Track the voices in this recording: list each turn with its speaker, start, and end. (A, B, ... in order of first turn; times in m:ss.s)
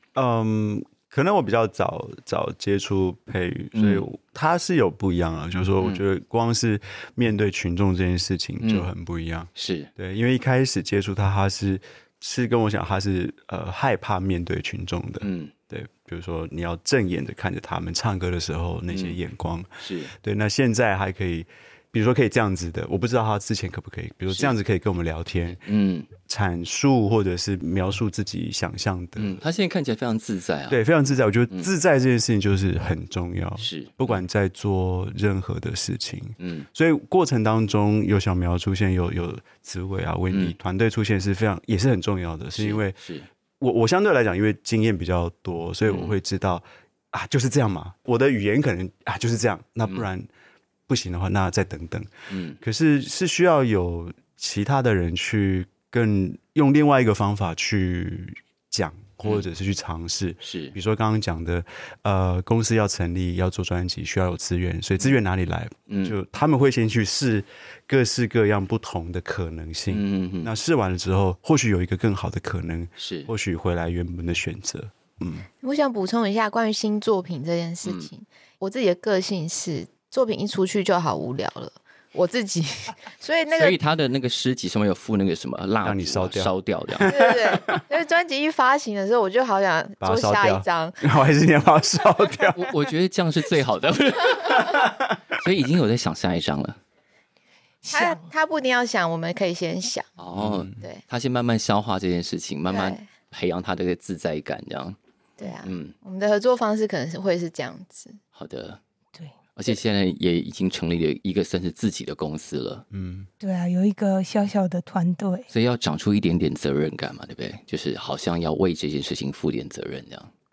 0:00.1-0:25.6 A
0:03.7-0:04.0 B
0:08.6-0:08.9 B
0:09.6-0:09.9 B
0:15.2-0:15.5 B
0:18.9-0:19.2 B
0:19.8-0:20.1 B
0:24.3-0:24.5 B
0:25.6-0:26.1 B
0:26.2-0:29.4 A
0:29.2-0:30.8 B
0:30.7-0:43.0 A
0:33.6-0:34.2 B
0:36.4-0:36.7 B
0:40.3-0:40.5 B
0:42.6-0:43.3 B
0:43.6-0:50.3 A
0:45.8-0:46.2 B
0:50.9-1:15.5 A
0:52.3-0:52.6 B
1:00.4-1:00.7 B
1:05.9-1:06.2 B
1:09.9-1:10.5 B
1:13.0-1:13.3 B
1:15.6-1:23.8 C
1:17.8-1:18.1 B
1:23.5-1:27.1 B
1:25.8-1:27.8 A
1:27.0-1:31.1 C
1:30.0-1:32.7 A
1:32.5-1:36.8 B
1:34.6-1:35.1 A
1:37.8-1:38.3 D
1:37.9-1:40.1 C
1:40.2-1:45.0 B
1:40.4-1:40.8 A
1:42.7-1:43.1 C
1:45.4-1:48.2 C
1:45.6-1:45.9 B
1:48.3-1:48.8 B
1:49.6-1:52.8 B
1:52.9-1:53.3 A
1:53.4-1:55.5 D
1:55.5-2:00.3 B